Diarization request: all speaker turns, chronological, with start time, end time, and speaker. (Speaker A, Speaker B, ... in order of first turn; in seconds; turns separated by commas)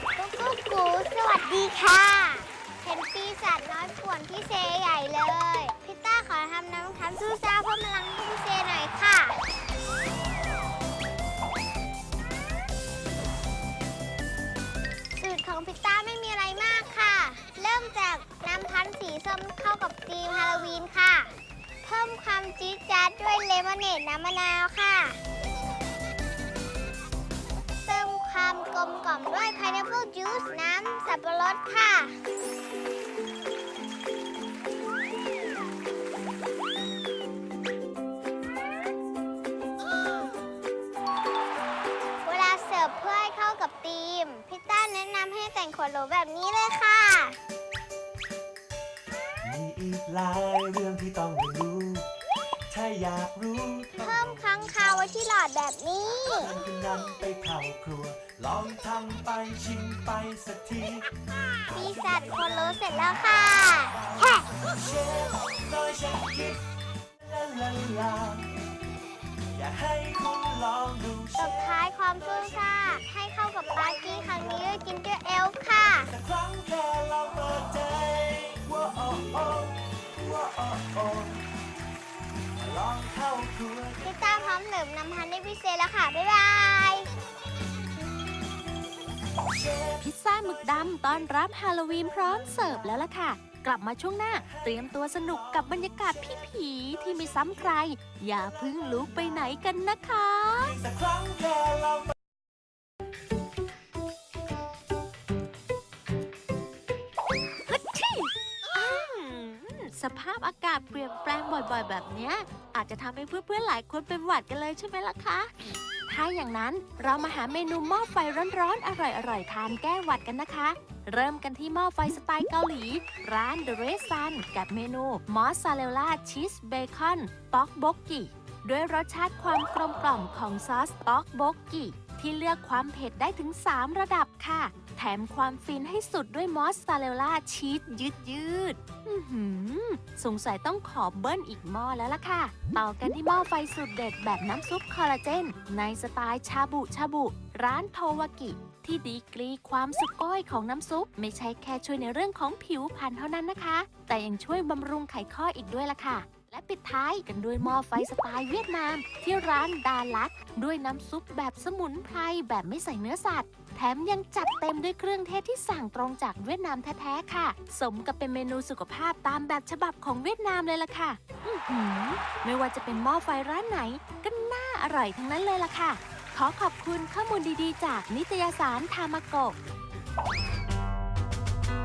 Speaker A: 0.2-9.4, Speaker A: 15.2-25.2, Speaker A: 27.9-32.2, Speaker A: 42.2-47.4, Speaker B: 49.4-52.1, Speaker B: 52.7-55.2, Speaker A: 54.0-56.5, Speaker B: 56.3-61.1, Speaker B: 61.7-66.6, Speaker A: 61.7-64.5, Speaker B: 67.2-68.5, Speaker B: 69.5-72.7, Speaker A: 71.4-76.1, Speaker B: 73.7-74.7, Speaker B: 76.0-81.5, Speaker B: 82.6-84.3, Speaker A: 84.0-87.1, Speaker B: 89.4-93.1, Speaker C: 90.0-100.7, Speaker B: 94.3-99.6, Speaker B: 100.6-102.1, Speaker C: 107.7-115.5, Speaker C: 116.1-179.6